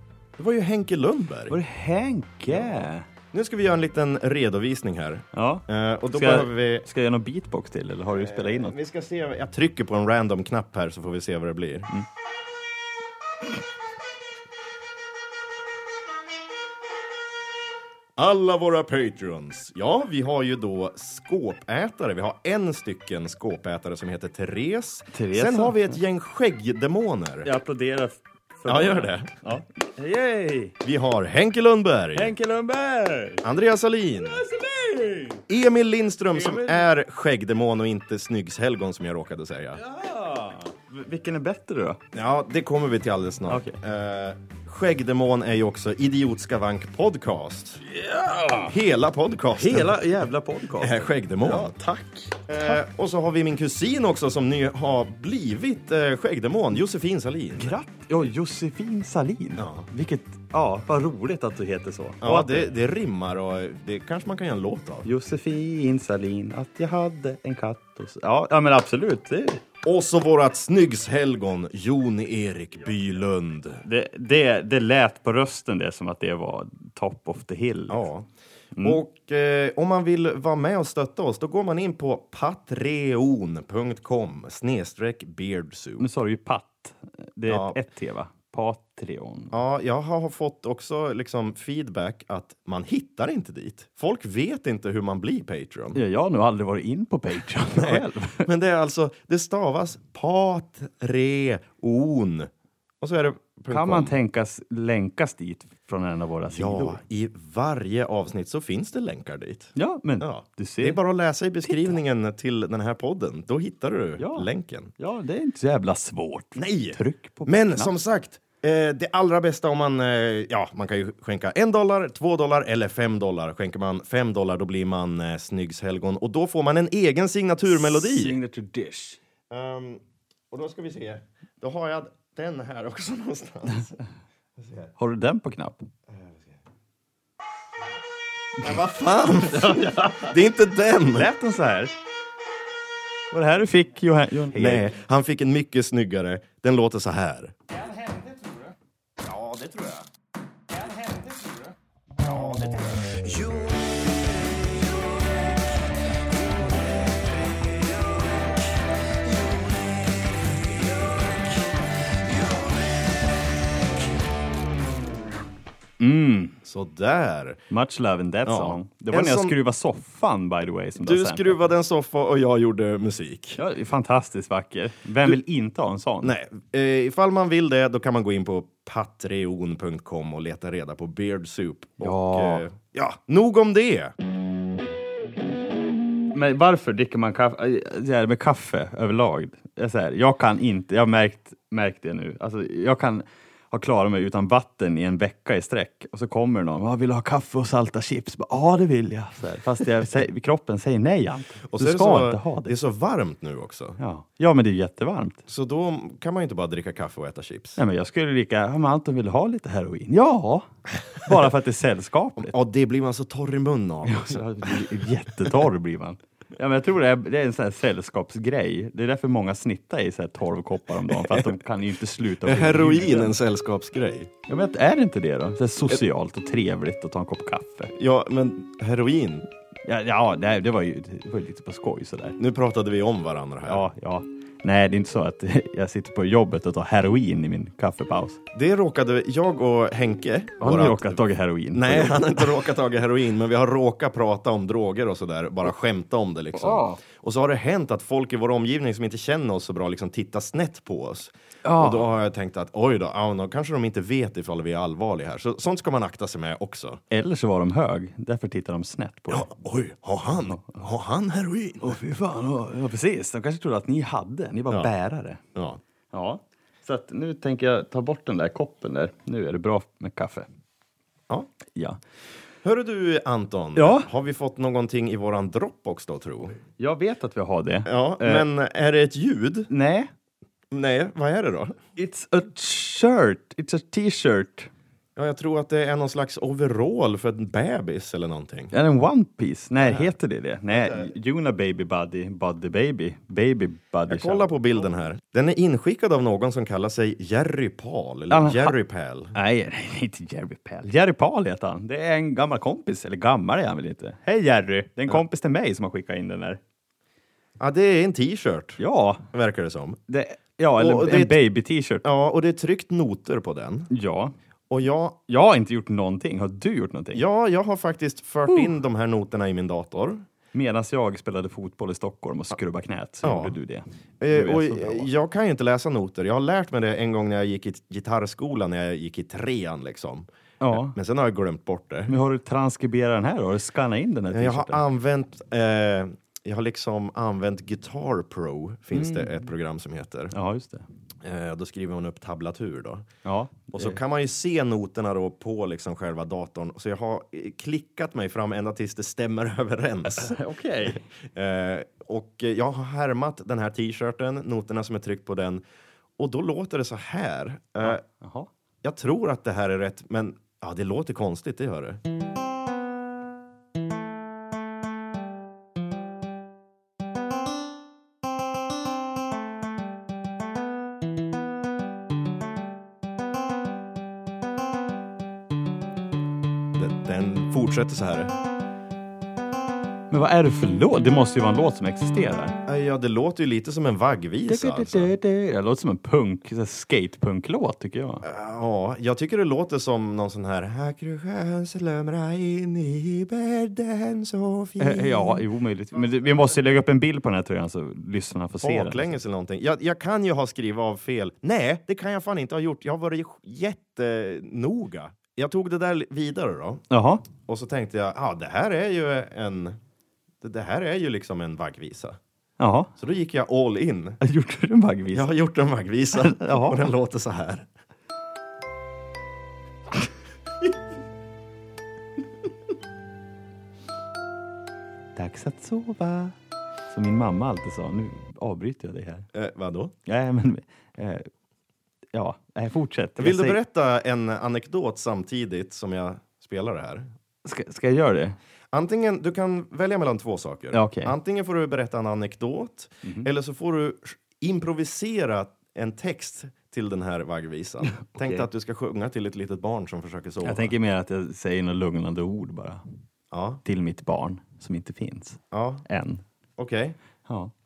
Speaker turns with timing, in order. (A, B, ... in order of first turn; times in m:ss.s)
0:00.4-0:01.6 A
0:01.5-0:03.1 B
0:02.5-0:06.9 A
0:05.3-0:08.8 B
0:08.1-0:11.9 A
0:18.2-0:27.5 A
0:25.1-0:26.0 B
0:27.4-0:30.8 B
0:28.7-0:29.3 A
0:30.8-0:32.3 A
0:32.2-0:33.4 B
0:33.4-0:34.4 A
0:34.3-0:35.5 B
0:35.5-0:39.8 A
0:36.4-0:36.9 B
0:39.8-0:42.0 B
0:42.1-0:47.8 A
0:43.5-0:43.8 B
0:47.8-0:48.7 B
0:48.7-0:49.9 A
0:49.6-0:52.8 B
0:50.8-0:51.8 A
0:52.5-0:57.8 A
0:57.6-1:02.7 B
0:59.6-0:59.9 A
1:02.2-1:05.1 A
1:05.0-1:09.6 B
1:09.8-1:13.8 A
1:13.8-1:18.1 B
1:17.9-1:18.3 A
1:18.8-1:19.0 B
1:18.8-1:26.1 A
1:26.0-1:29.6 B
1:27.5-1:27.8 A
1:29.5-1:36.0 A
1:36.0-1:38.5 B
1:37.7-1:42.5 A
1:43.0-1:44.2 A
1:43.7-1:47.0 B
1:46.5-1:54.9 A
1:49.8-1:51.0 B
1:51.6-1:52.0 B
1:54.2-1:57.9 B
1:56.6-2:08.4 A
2:07.7-2:09.2 B
2:09.5-2:14.0 A
2:14.6-2:14.9 A
2:15.0-2:15.9 B
2:16.1-2:16.6 A
2:18.6-2:21.3 A
2:19.4-2:20.4 B
2:21.0-2:21.9 B
2:23.3-2:24.9 B
2:24.5-2:27.5 A
2:27.8-2:28.7 B
2:29.2-2:30.1 A
2:30.9-2:31.6 B
2:32.2-2:34.0 A
2:41.2-2:41.4 A
2:46.0-2:46.6 B
2:46.6-2:47.6 A
2:47.7-2:51.6 B
2:48.5-2:49.6 A
2:51.0-2:53.6 A
2:53.6-2:56.4 B
2:56.2-3:04.1 A
3:02.0-3:02.7 B
3:06.3-3:22.8 B
3:21.7-3:24.0 A
3:24.0-3:25.4 B
3:25.5-3:27.8 A
3:27.8-3:32.5 B
3:32.4-3:35.0 A
3:34.0-3:43.4 B
3:41.1-3:41.6 A
3:42.4-3:44.3 A
3:44.5-3:47.9 B
3:47.9-3:49.5 A
3:49.9-3:52.4 B
3:52.4-3:53.9 A
3:53.7-3:58.4 B
3:58.5-4:01.2 A
4:00.6-4:02.5 B
4:01.7-4:17.0 A
4:06.5-4:07.0 B
4:11.6-4:12.1 B
4:17.1-4:19.5 B
4:19.3-4:22.0 A
4:20.5-4:20.9 B
4:21.8-4:25.4 B
4:25.6-4:25.8 A
4:26.1-4:30.5 B
4:32.6-4:36.6 A
4:33.8-4:34.1 B
4:36.8-4:38.5 B
4:37.8-4:39.7 A
4:39.7-4:40.1 B
4:40.7-4:41.8 A
4:42.0-4:44.7 B
4:45.2-4:48.7 A
4:48.7-4:54.6 B
4:49.8-4:50.1 A
4:50.7-4:51.1 A
4:54.1-4:59.4 A
4:58.3-4:58.8 B
4:59.3-5:06.6 B
5:07.6-5:08.8 A
5:08.8-5:09.3 B
5:09.3-5:10.0 A
5:10.1-5:12.0 B
5:10.8-5:11.4 A
5:12.0-5:13.9 A
5:13.9-5:14.3 B
5:14.7-5:15.2 A
5:15.3-5:17.2 B
5:17.1-5:20.2 A
5:20.5-5:25.1 B
5:23.2-5:23.6 A
5:24.2-5:32.1 A
5:30.6-5:31.0 B
5:32.1-5:34.8 B
5:34.3-5:40.3 A
5:38.9-5:39.4 B
5:40.3-5:40.9 B
5:41.2-5:43.1 A
5:43.2-5:44.0 B
5:43.7-5:55.6 A
5:50.1-5:51.0 B
5:56.2-5:58.0 A
5:57.8-5:58.5 B
5:58.8-6:02.0 A
6:16.8-6:18.3 A
6:20.1-6:22.6 B
6:22.7-6:25.1 A
6:24.5-6:28.2 B
6:28.2-6:35.4 A
6:34.8-6:39.2 B
6:38.6-6:49.8 A
6:46.9-6:47.2 B
6:50.4-6:52.2 A
6:52.6-6:52.9 B
6:53.0-6:54.2 A
6:54.2-6:55.3 B
6:55.1-6:57.7 A
6:56.1-6:56.9 B
7:05.2-7:06.4 B
7:06.9-7:09.3 B
7:09.3-7:09.9 A
7:10.1-7:11.3 B
7:12.1-7:13.6 B
7:13.2-7:17.1 A
7:17.4-7:18.4 B
7:18.7-7:30.7 A
7:20.7-7:21.1 B
7:23.0-7:23.3 B
7:27.9-7:28.5 B
7:30.4-7:32.8 B
7:33.3-7:33.6 A
7:33.6-7:36.2 B
7:35.5-7:35.8 A
7:36.6-7:37.0 A
7:37.3-7:37.5 B